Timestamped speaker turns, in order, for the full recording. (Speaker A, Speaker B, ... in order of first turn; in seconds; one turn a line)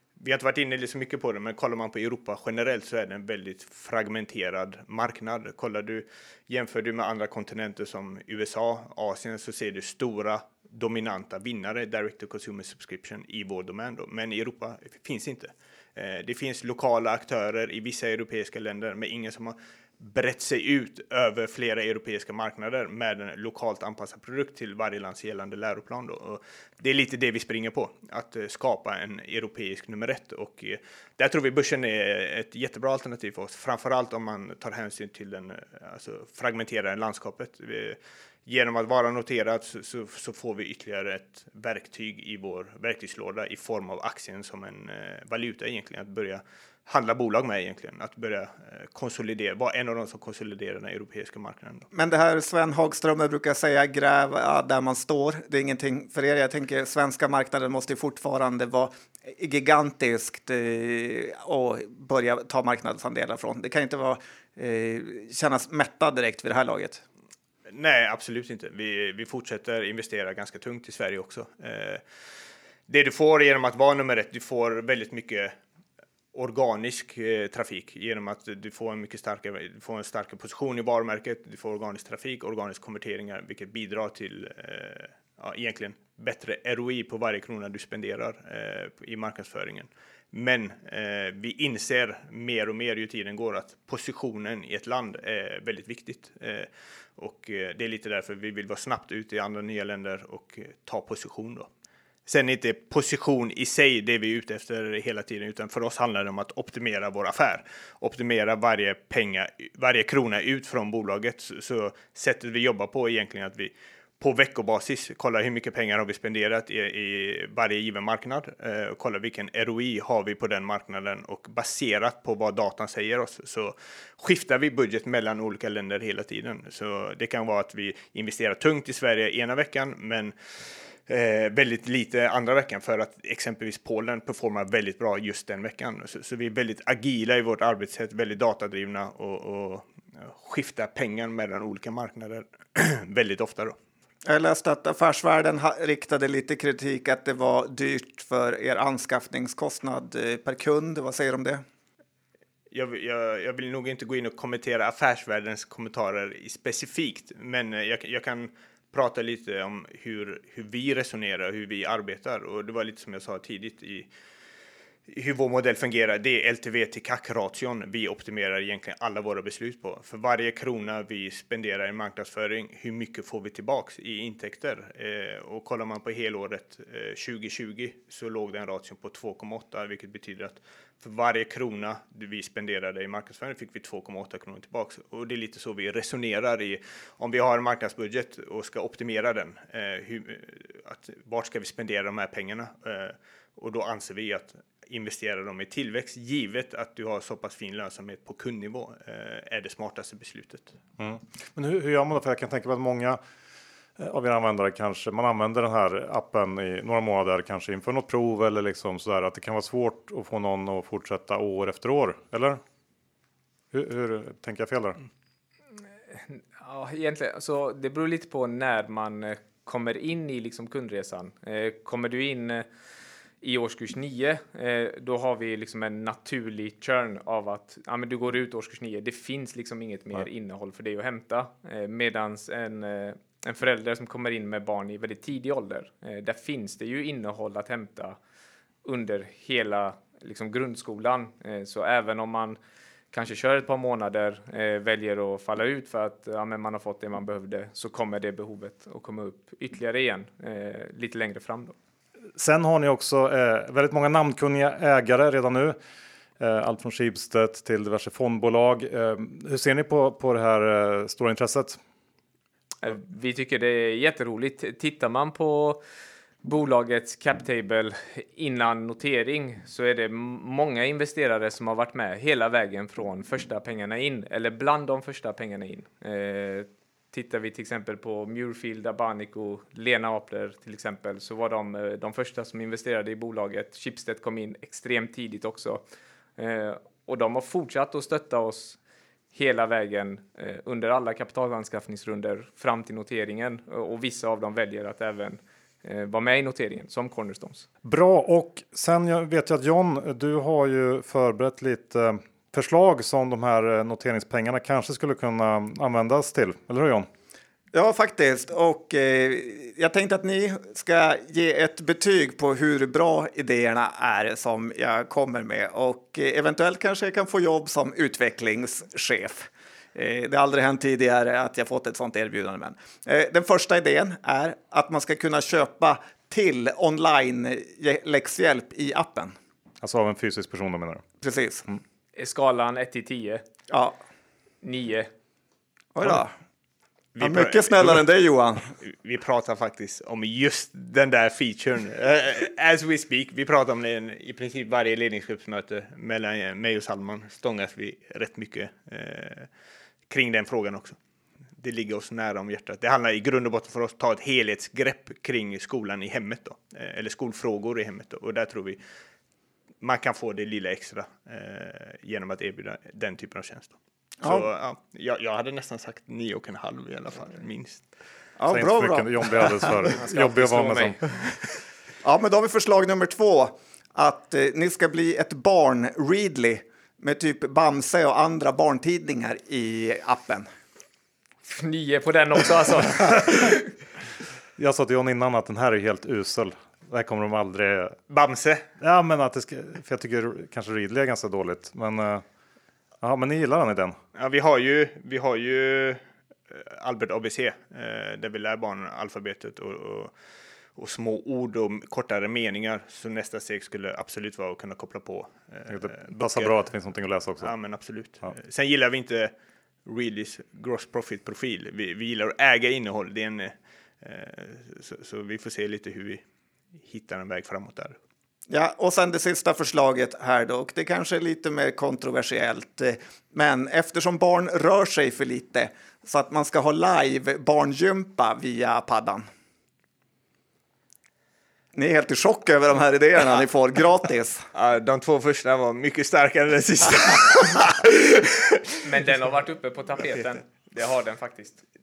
Speaker A: 0.2-51.9
Speaker B: 51.9-67.0
Speaker A: 67.7-72.0
Speaker A: 72.9-75.6
Speaker A: 76.3-101.7
Speaker A: 102.3-130.3
Speaker A: 131.1-143.8
Speaker B: 144.3-151.6
Speaker A: 152.7-164.1
Speaker A: 165.1-200.8
Speaker C: 201.0-203.2
Speaker C: 204.0-212.6
Speaker C: 213.7-215.0
Speaker D: 216.1-222.7
Speaker D: 223.4-238.2
Speaker D: 238.8-242.6
Speaker D: 243.1-251.8
Speaker C: 252.4-255.8
Speaker C: 256.4-261.8
Speaker D: 262.8-265.8
Speaker D: 266.4-285.8
Speaker D: 286.4-288.8
Speaker D: 289.3-297.7
Speaker C: 297.8-307.1
Speaker B: 307.7-329.4
Speaker C: 329.8-331.1
Speaker B: 331.2-331.6
Speaker D: 332.2-333.4
Speaker B: 333.7-334.0
Speaker D: 334.6-335.1
Speaker B: 335.9-336.3
Speaker A: 337.1-338.1
Speaker B: 337.2-338.7
Speaker A: 338.8-349.5
Speaker A: 350.1-351.0
Speaker A: 351.6-358.8
Speaker A: 359.8-367.9
Speaker B: 364.2-364.5
Speaker B: 368.4-369.8
Speaker C: 368.5-371.2
Speaker D: 370.0-371.1
Speaker B: 372.0-380.5
Speaker D: 381.5-383.8
Speaker C: 384.6-388.0
Speaker A: 388.1-388.7
Speaker C: 388.8-392.2
Speaker C: 393.0-394.0
Speaker A: 394.1-400.1
Speaker A: 400.8-406.5
Speaker C: 405.7-407.5
Speaker A: 407.4-409.3
Speaker A: 409.9-416.2
Speaker A: 416.8-418.0
Speaker B: 418.5-429.3
Speaker B: 431.7-434.5
Speaker A: 434.5-438.8
Speaker D: 438.8-441.6